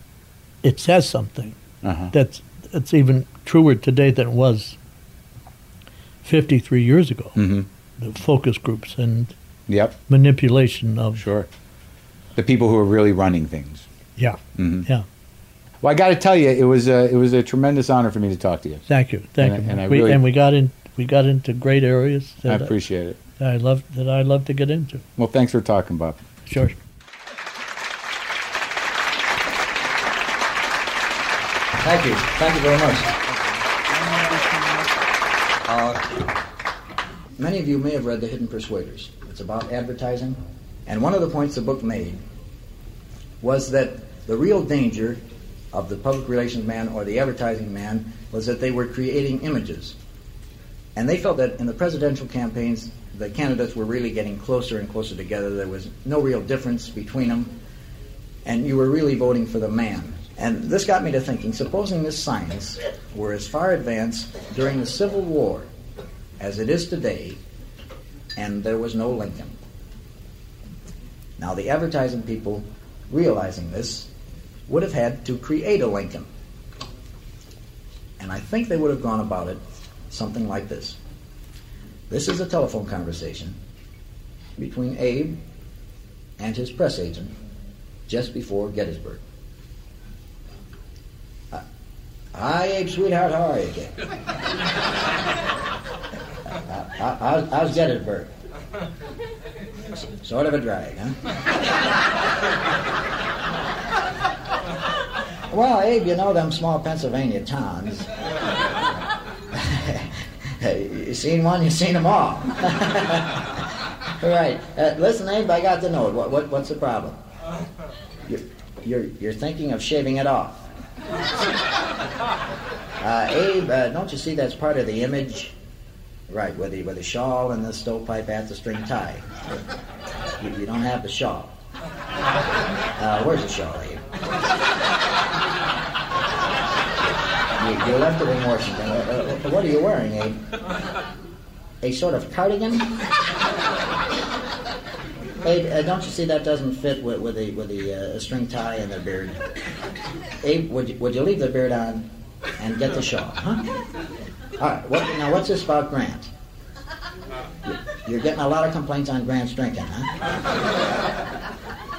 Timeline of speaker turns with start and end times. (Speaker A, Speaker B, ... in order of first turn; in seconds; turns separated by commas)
Speaker A: 0.6-1.6, Speaker B: 1.8-2.1, Speaker A: 2.1-4.8, Speaker A: 6.2-7.4, Speaker B: 7.4-7.7, Speaker A: 8.0-9.3, Speaker B: 9.7-10.0, Speaker A: 10.1-11.2, Speaker B: 11.2-11.5, Speaker B: 12.4-13.8, Speaker A: 14.2-15.1, Speaker B: 14.6-14.9, Speaker B: 15.8-18.8, Speaker A: 18.9-22.8, Speaker B: 19.4-20.2, Speaker B: 22.5-23.2, Speaker A: 23.4-25.1, Speaker B: 25.2-26.2, Speaker A: 26.5-26.8, Speaker C: 31.8-33.1, Speaker C: 35.7-36.2, Speaker C: 37.4-42.2, Speaker C: 43.4-45.2, Speaker C: 45.7-50.0, Speaker C: 51.0-57.5, Speaker C: 58.5-65.7, Speaker C: 66.4-67.4, Speaker C: 68.4-69.6, Speaker C: 71.4-74.1, Speaker C: 74.7-76.3, Speaker C: 78.2-81.0, Speaker C: 82.1-83.6, Speaker C: 84.6-85.4, Speaker C: 86.4-87.3, Speaker C: 88.1-89.2, Speaker C: 92.3-94.0, Speaker C: 96.7-98.3, Speaker C: 100.0-101.2, Speaker C: 105.5-108.1, Speaker C: 109.5-113.6, Speaker C: 114.2-117.2, Speaker C: 118.3-120.7, Speaker C: 123.0-125.5, Speaker C: 126.3-129.4, Speaker C: 130.4-131.6, Speaker C: 133.0-134.0, Speaker C: 137.6-140.4, Speaker C: 141.8-142.9, Speaker C: 145.4-149.4, Speaker C: 150.4-152.1, Speaker C: 152.6-153.6, Speaker C: 154.6-156.3, Speaker C: 157.6-160.1